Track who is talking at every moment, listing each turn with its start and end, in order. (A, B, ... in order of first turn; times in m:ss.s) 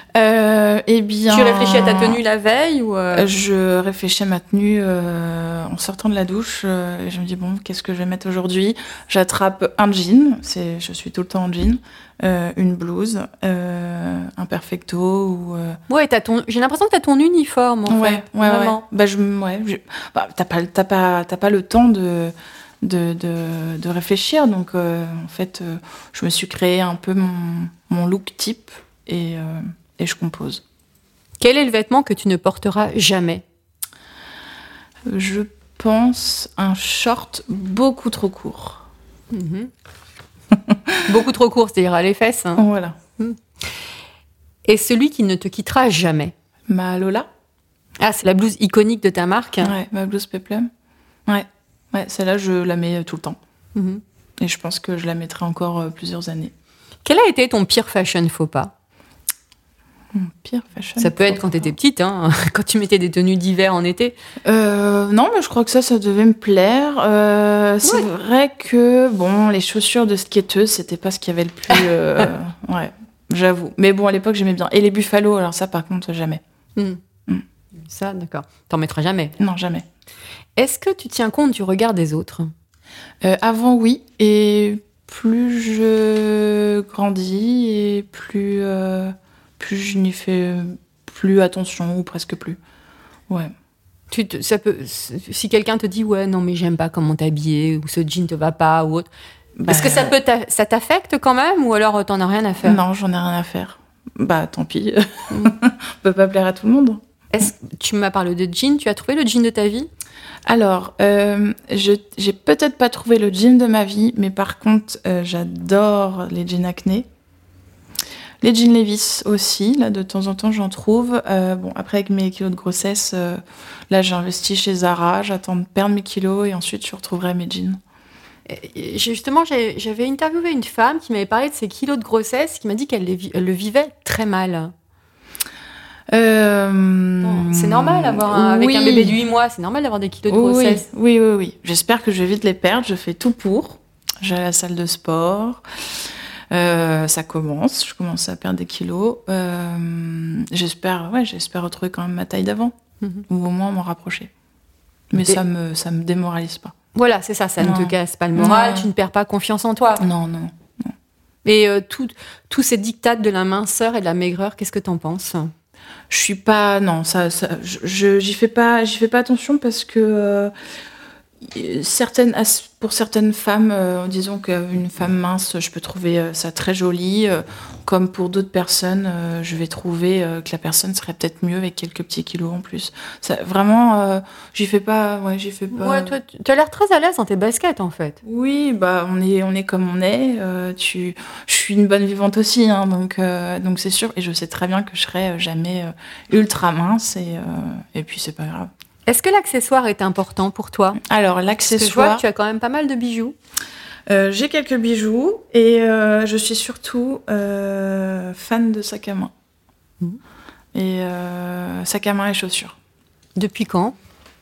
0:00.1-0:02.2 A
0:01.3-0:03.3 B
0:03.1-0:15.8 A
0:15.9-0:18.8 B
0:17.9-0:30.6 A
0:31.4-0:33.4 B
0:35.1-0:38.8 A
0:39.3-0:39.7 B
0:40.7-0:41.0 A
0:41.0-0:42.6 B
0:42.6-0:43.0 A
0:43.2-0:43.7 B
0:44.7-0:46.3 B
0:46.7-0:47.3 A
0:48.0-0:49.7 B
0:49.6-0:50.7 A
0:51.3-0:53.4 A
0:53.8-0:54.0 B
0:54.4-0:56.5 A
0:57.0-0:58.7 B
1:00.1-1:01.7 A
1:01.0-1:04.2 B
1:04.4-1:16.4 A
1:17.8-1:19.4 B
1:19.4-1:19.9 A
1:20.6-1:22.5 B
1:23.2-1:32.6 A
1:34.1-1:39.1 B
1:39.6-1:40.1 A
1:39.7-1:42.8 B
1:42.6-1:47.0 A
1:47.3-1:49.9 B
1:50.5-1:57.1 A
1:58.4-2:07.8 A
2:08.5-2:14.7 B
2:16.1-2:19.2 A
2:17.2-2:20.8 B
2:20.3-2:25.6 A
2:26.5-2:32.8 A
2:33.3-2:34.3 A
2:35.1-2:36.8 A
2:36.9-2:40.0 B
2:37.6-2:38.9 A
2:40.0-2:40.9 A
2:41.4-2:45.5 B
2:46.1-2:50.5 A
2:51.4-3:06.2 A
3:05.7-3:08.2 B
3:08.2-3:18.7 A
3:19.1-3:21.0 B
3:21.0-3:22.2 A
3:21.7-3:23.4 B
3:24.1-3:29.3 A
3:30.7-3:32.8 A
3:33.4-3:34.0 B